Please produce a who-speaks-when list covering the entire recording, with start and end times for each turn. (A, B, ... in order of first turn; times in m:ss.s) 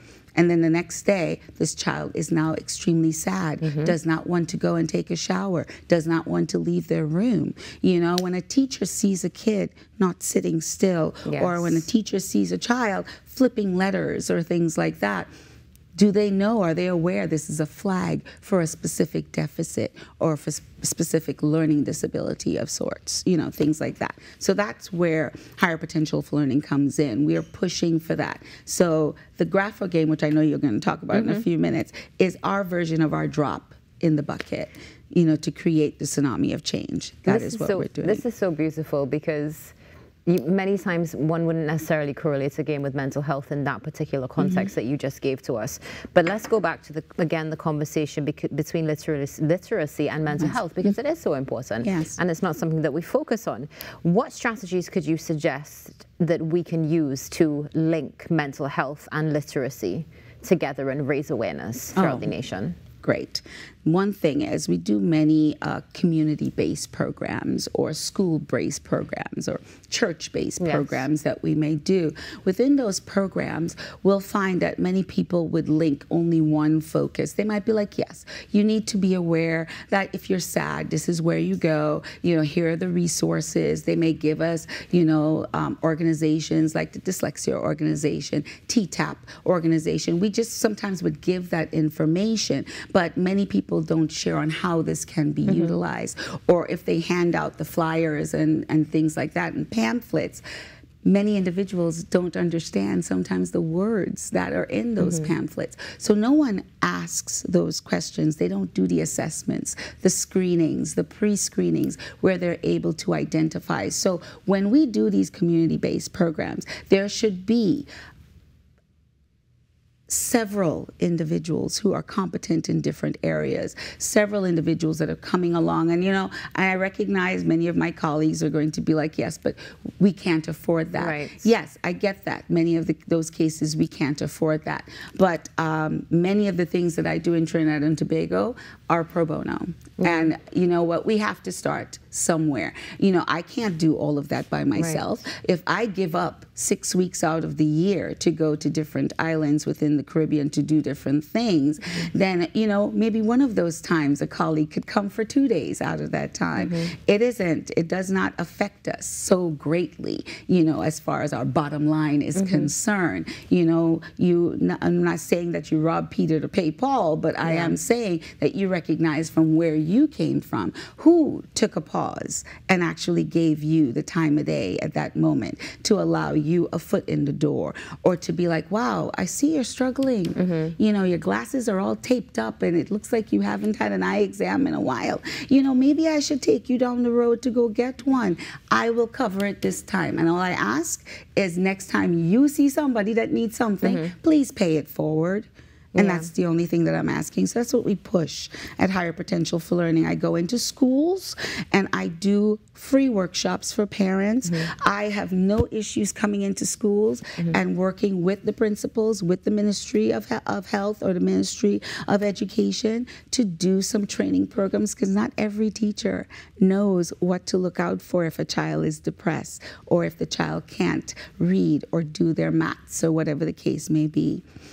0:00.4-0:15.3 A
0:03.6-0:04.0 B
0:11.3-0:11.8 B
0:16.0-0:38.2 A
0:31.1-0:31.5 B
0:37.3-0:39.7 B
0:40.3-1:02.8 B
0:44.4-0:44.7 A
0:51.8-0:52.2 A
1:02.0-1:02.3 A
1:03.0-1:40.4 A
1:10.6-1:11.1 B
1:35.5-1:35.8 B
1:41.0-1:57.9 A
1:45.0-1:45.3 B
2:00.1-3:44.4 A
2:11.0-2:11.5 B
2:20.0-2:20.3 B
2:24.8-2:25.1 B
2:36.6-2:36.9 B
2:42.4-2:42.7 B
2:47.4-2:47.8 B
3:00.4-3:00.8 B
3:13.8-3:14.2 B
3:16.0-3:16.3 B
3:24.5-3:24.7 B